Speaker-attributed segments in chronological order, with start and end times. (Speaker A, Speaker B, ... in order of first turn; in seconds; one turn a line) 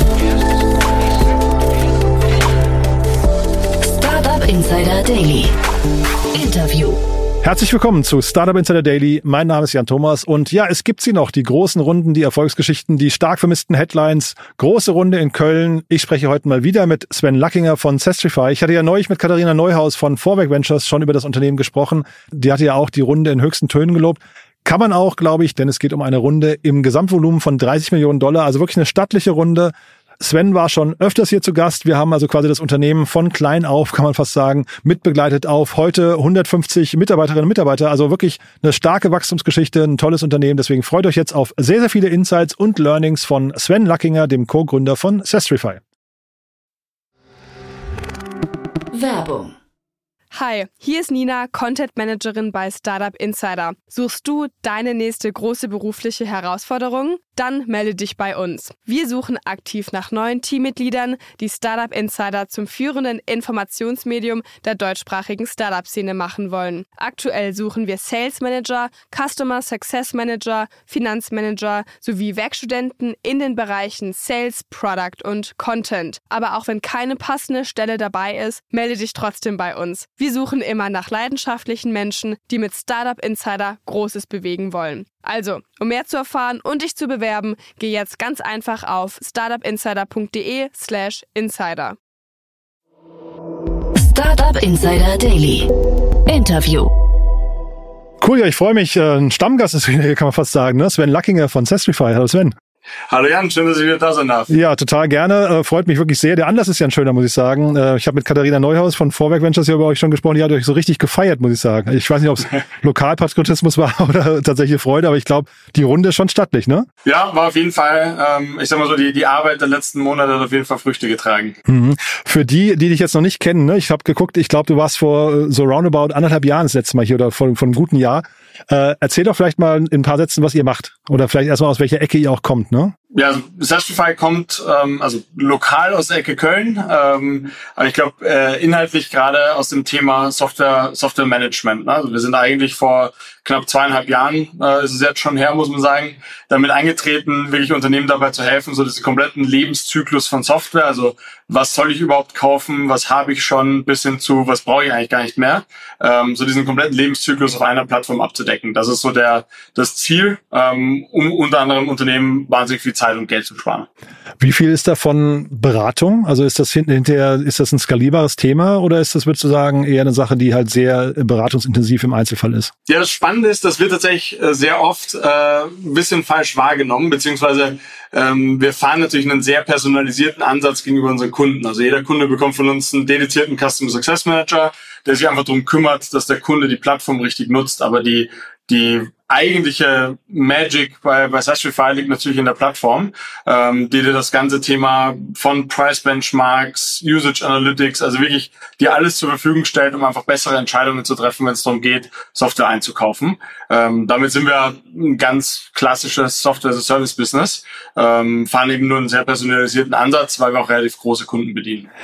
Speaker A: 3.8-5.5
Speaker A: 6.3-7.0
Speaker B: 7.4-45.8
Speaker A: 48.9-49.5
Speaker C: 50.3-92.0
Speaker A: 94.0-95.7
Speaker A: 96.3-96.9
Speaker B: 98.2-102.6
Speaker D: 103.1-104.5
Speaker B: 104.5-116.9
Speaker D: 117.0-121.6
Speaker B: 121.7-132.9
Speaker D: 133.1-163.9
Speaker B: 164.4-172.7
Speaker D: 172.9-211.9